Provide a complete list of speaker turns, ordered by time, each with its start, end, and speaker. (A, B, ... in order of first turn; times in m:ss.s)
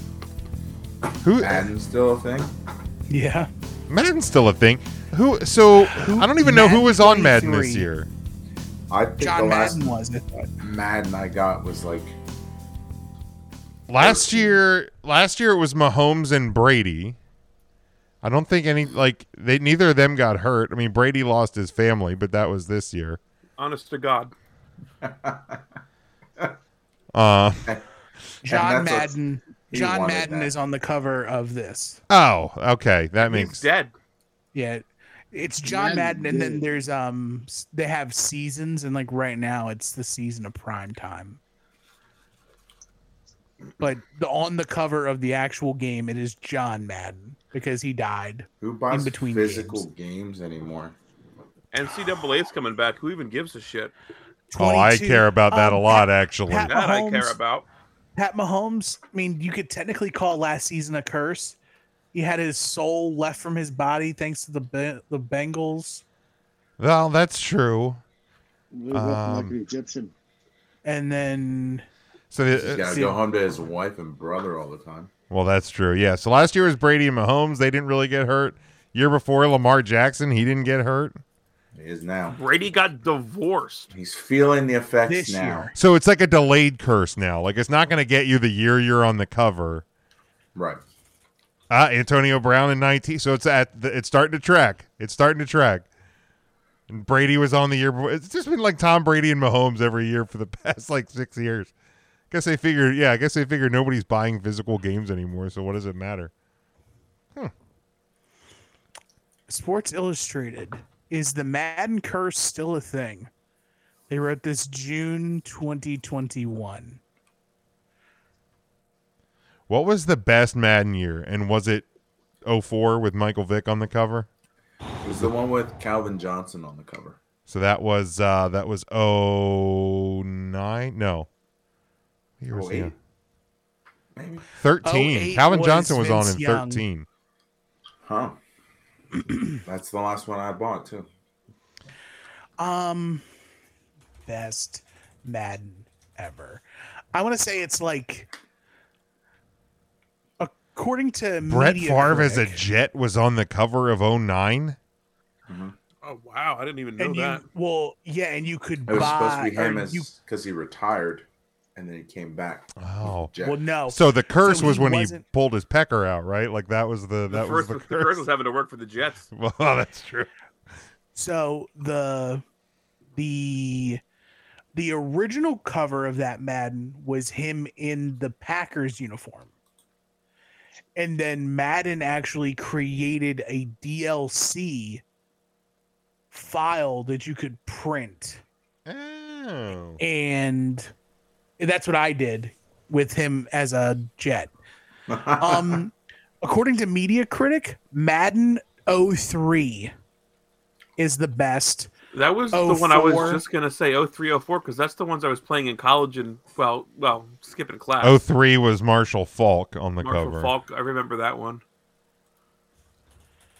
0:01.2-0:01.7 A
0:01.4-0:02.5 B
0:03.1-0:03.5 C
0:03.9-0:08.1 A
0:05.8-0:07.9 C
0:08.9-0:09.9 B
0:09.2-0:10.5 C
0:10.6-0:12.2 B
0:13.9-0:17.2 A
0:14.0-0:14.6 B
0:18.2-0:23.2 A
0:23.6-0:24.3 D
0:25.0-0:25.6 B
0:27.1-0:27.8 A
0:28.4-0:32.0 C
0:28.5-0:29.1 B
0:29.7-0:30.5 B
0:32.1-0:33.6 A
0:33.2-0:33.9 D
0:34.5-0:41.4 C
0:35.6-0:36.7 E
0:43.8-0:49.8 C
0:48.6-0:51.0 B
0:51.7-0:53.9 D
0:54.5-0:57.4 C
0:54.6-0:56.7 A
0:56.7-0:57.7 D
0:58.2-1:01.6 C
1:02.1-1:06.0 C
1:06.8-1:08.0 A
1:08.7-1:10.1 E
1:08.9-1:09.6 A
1:10.8-1:11.9 C
1:12.3-1:13.1 A
1:12.5-1:15.1 B
1:12.9-1:13.2 C
1:15.3-1:21.2 A
1:21.8-1:22.4 B
1:22.3-1:23.9 D
1:23.9-1:25.7 B
1:25.1-1:25.7 C
1:25.8-1:29.8 A
1:30.6-1:30.8 B
1:31.7-1:35.9 A
1:36.9-1:41.7 A
1:42.3-1:46.3 A
1:49.5-1:53.3 C
1:54.1-1:57.0 C
1:59.7-2:01.9 A
2:02.4-2:04.3 A
2:05.0-2:07.2 B
2:05.0-2:05.3 A
2:07.5-2:11.3 A
2:12.4-2:12.9 A
2:12.5-2:13.0 B
2:14.2-2:14.4 B
2:14.6-2:17.1 A
2:14.8-2:16.8 C
2:18.0-2:18.4 B
2:19.6-2:21.1 B
2:22.6-2:23.2 C
2:24.2-2:26.6 C
2:27.1-2:28.3 C
2:30.4-2:32.6 C
2:31.4-2:34.8 A
2:35.5-2:35.7 B
2:36.0-2:37.4 D
2:37.0-2:40.1 C
2:38.9-2:43.6 B
2:42.8-2:43.3 A
2:43.4-2:45.2 C
2:43.9-2:48.2 A
2:47.3-2:49.3 D
2:49.3-2:50.3 A
2:51.1-2:52.4 C
2:53.2-2:54.0 C
2:54.7-2:59.5 C
3:01.0-3:05.0 C
3:06.3-3:08.4 C
3:08.8-3:10.0 A
3:10.0-3:10.9 C
3:11.6-3:14.5 C
3:15.1-3:15.8 B
3:15.2-3:19.9 C
3:21.0-3:21.9 C
3:22.1-3:28.2 D
3:22.5-3:23.4 C
3:28.0-3:30.5 A
3:30.0-3:31.6 D